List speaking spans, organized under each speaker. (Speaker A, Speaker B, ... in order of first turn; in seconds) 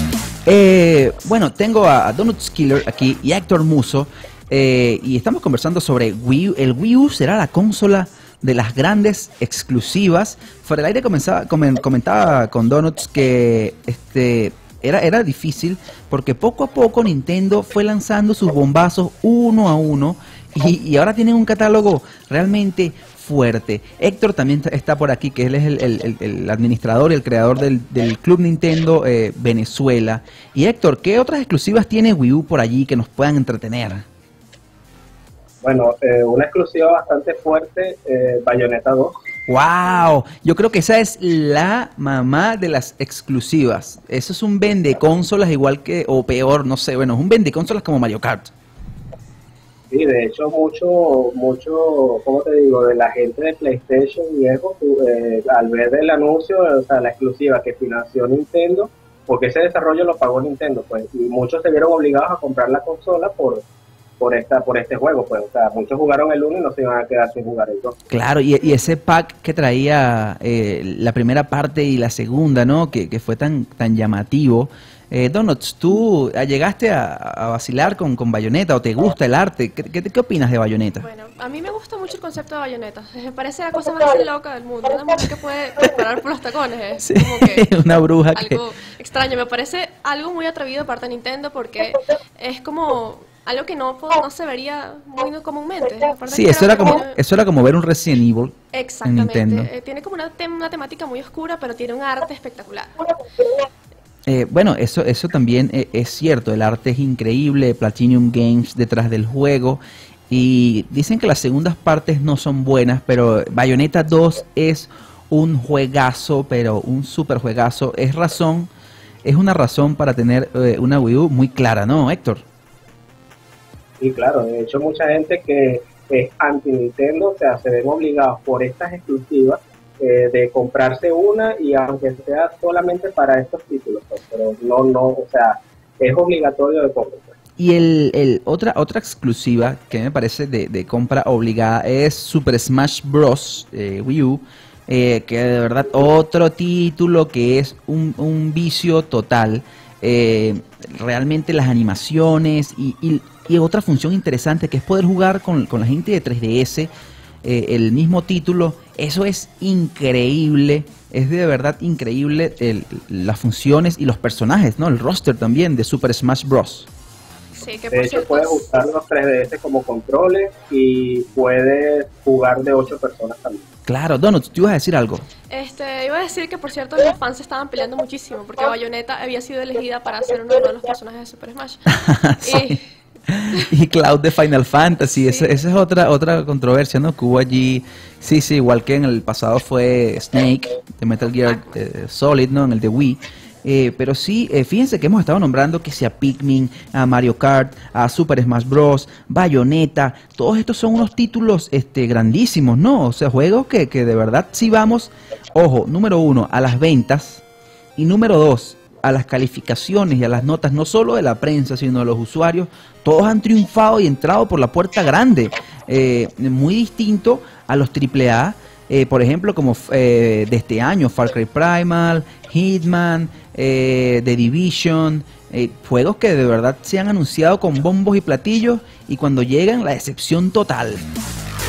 Speaker A: 0.5-34.1, 39.5-48.5, 68.1-81.1, 87.0-88.6, 96.3-99.7, 104.3-118.7, 119.2-122.4, 137.6-156.9, 157.4-166.9, 173.9-175.3, 181.9-207.4, 208.0-231.1
Speaker B: 35.6-39.1, 49.9-63.6, 64.2-68.0, 124.0-137.3, 167.9-173.7
Speaker C: 81.0-87.7, 88.3-97.2, 98.7-103.0, 167.6-168.7, 175.5-181.9, 182.4-182.8, 185.0-185.5, 191.5-191.7